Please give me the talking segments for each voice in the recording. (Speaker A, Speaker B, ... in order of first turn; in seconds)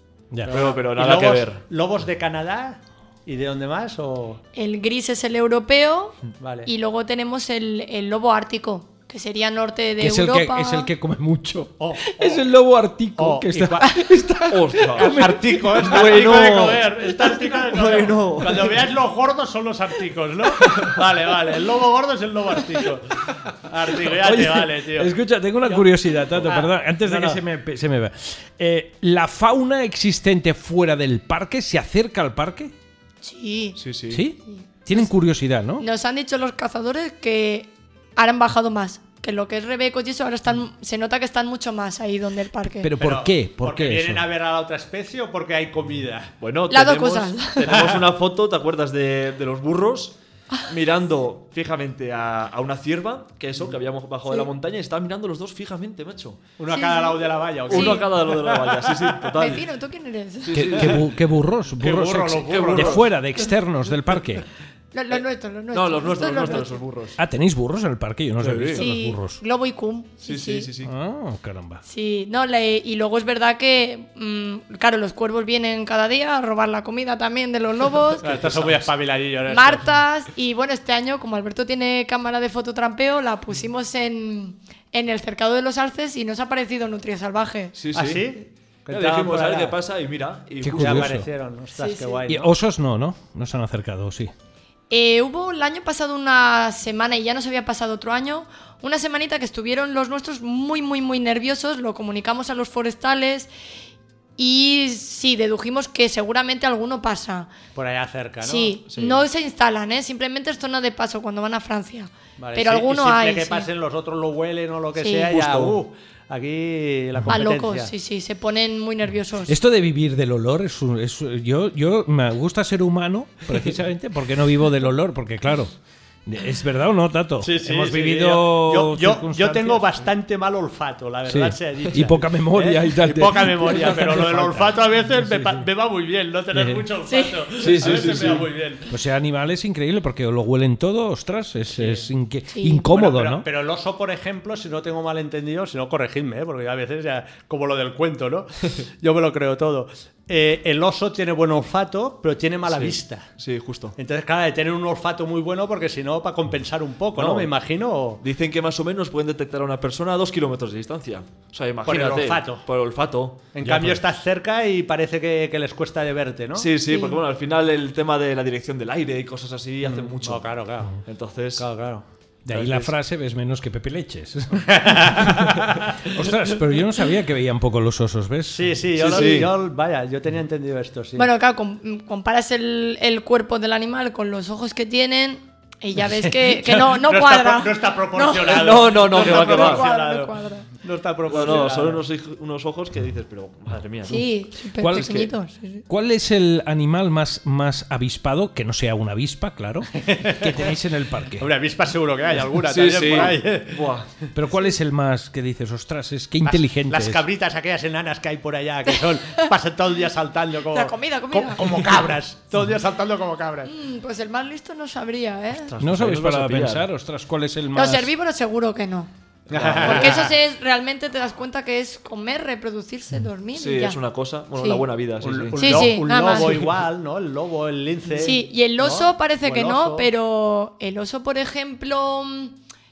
Speaker A: 0.5-1.6, 14.5-15.2, 15.8-18.8, 33.8-34.2, 46.4-56.4, 57.7-59.6, 60.4-61.1, 62.4-63.0, 65.7-67.2, 68.4-68.9, 70.2-70.9, 78.2-78.9, 87.8-88.3, 88.9-91.2, 108.9-109.2, 115.3-115.8, 137.6-138.5, 152.7-153.9, 157.1-157.5, 158.2-163.5, 166.5-171.7, 172.5-172.9, 179.0-179.6, 188.4-189.9, 191.3-194.3, 194.9-195.3, 202.6-204.1, 215.5-216.9, 219.5-220.2, 223.5-226.0
Speaker B: 0.5-4.4, 6.4-6.7, 11.8-12.4, 13.2-13.9, 14.9-25.1, 26.4-27.4, 43.0-46.3, 47.6-48.1, 56.6-59.3, 61.8-63.0, 78.2-79.8, 87.9-89.8, 90.8-92.5, 107.7-108.8, 112.4-117.9, 127.4-138.9, 141.7-142.1, 142.9-153.3, 153.9-158.2, 161.8-162.7, 163.5-166.7, 169.8-171.0, 171.6-172.7, 174.7-175.9, 178.5-181.3, 186.0-192.0, 200.0-200.7, 201.4-203.9, 206.4-213.7, 219.5-220.3, 225.2-230.1
Speaker C: 4.5-10.9, 33.2-33.8, 34.5-35.1, 35.8-42.9, 46.7-47.6, 56.7-58.1, 59.4-60.5, 64.9-66.8, 68.7-70.7, 71.8-78.2, 79.5-87.8, 91.8-92.2, 94.9-103.5, 104.4-107.5, 108.4-113.7, 115.0-115.3, 117.3-119.5, 137.1-137.4, 142.5-142.8, 166.9-167.2, 181.2-190.7, 194.1-195.8, 210.7-211.7, 213.6-215.7, 217.7-219.1, 219.8-224.0, 224.5-224.8, 225.5-226.6, 228.2-232.6
Speaker D: 10.0-16.5, 24.1-32.7, 34.1-35.8, 42.8-44.2, 60.5-64.5, 67.2-69.4, 70.8-71.8, 90.6-91.3, 92.3-94.3, 119.5-125.7, 126.2-129.9, 131.3-135.7, 136.5-136.8, 137.6-138.2, 138.9-143.4, 163.6-164.0, 172.5-175.5, 176.1-178.8, 194.8-195.2, 195.9-201.5, 204.3-207.2, 215.8-218.1